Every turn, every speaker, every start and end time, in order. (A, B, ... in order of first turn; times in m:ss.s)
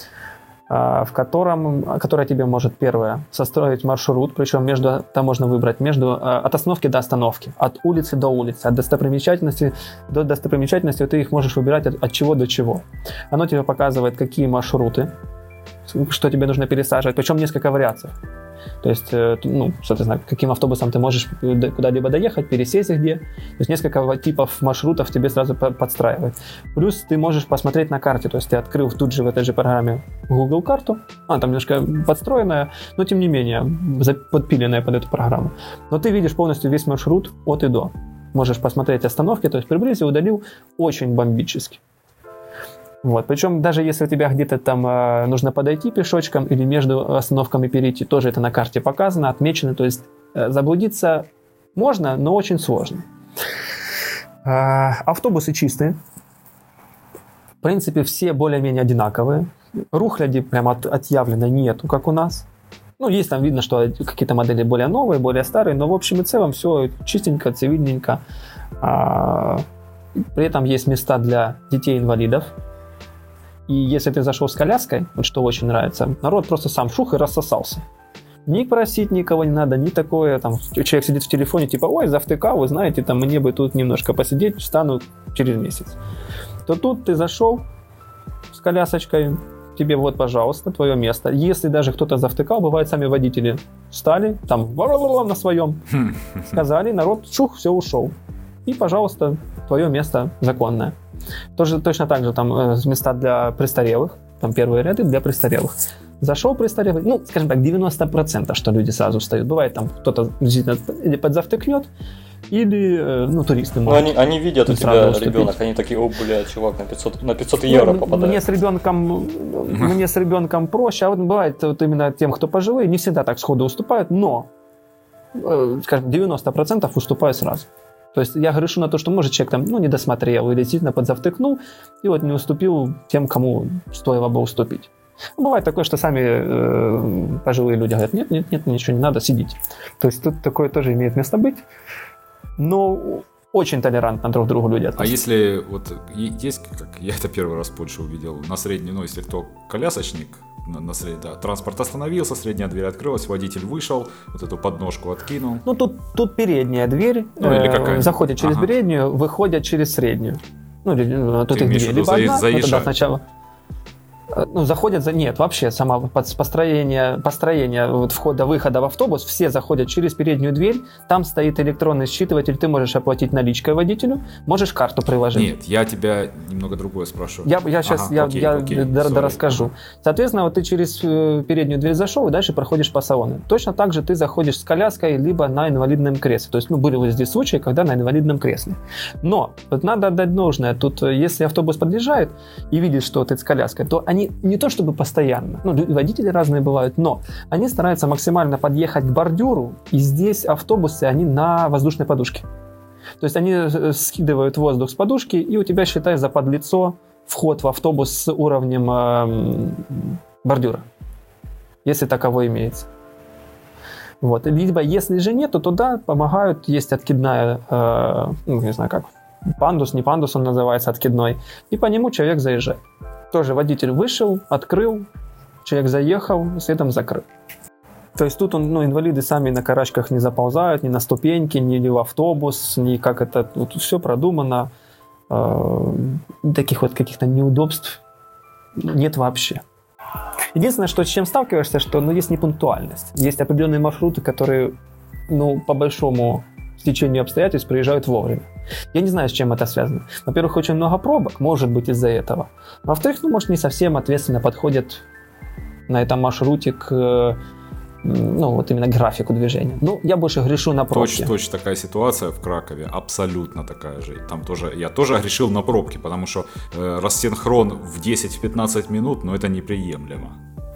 0:00.7-0:15.1 A
0:15.9-0:18.1 A
0:18.8-0:41.8 A
0:43.0-0:53.0 A
0:54.4-0:56.0 A
0:57.6-1:02.5 A
1:03.0-1:08.2 A
1:08.8-1:09.6 A
1:10.3-1:12.5 A
1:13.7-1:17.8 A
1:18.4-1:26.0 A
1:26.6-1:27.6 A
1:28.5-1:35.8 A
1:35.9-1:36.6 B
1:36.4-1:38.1 A
1:38.6-1:41.0 A
1:41.6-1:51.9 A
1:52.5-1:54.1 A
1:53.8-1:58.4 C
1:54.6-1:55.6 A
1:57.7-2:04.5 A
2:05.3-2:21.6 A
2:22.6-2:25.1 A
2:25.0-2:35.6 B
2:35.6-2:43.2 A
2:37.4-2:38.7 B
2:41.5-2:43.0 B
2:44.3-2:55.5 A
2:55.3-2:59.7 B
2:57.4-3:22.4 A
3:23.2-3:30.8 A
3:31.8-3:32.9 A
3:34.2-3:45.0 A
3:45.6-3:47.2 A
3:48.2-3:54.7 A
3:55.3-3:58.0 A
3:58.8-3:59.6 A
4:00.5-4:04.7 A
4:05.3-4:15.0 A
4:15.9-4:17.4 A
4:18.0-4:21.3 A
4:20.9-4:30.4 B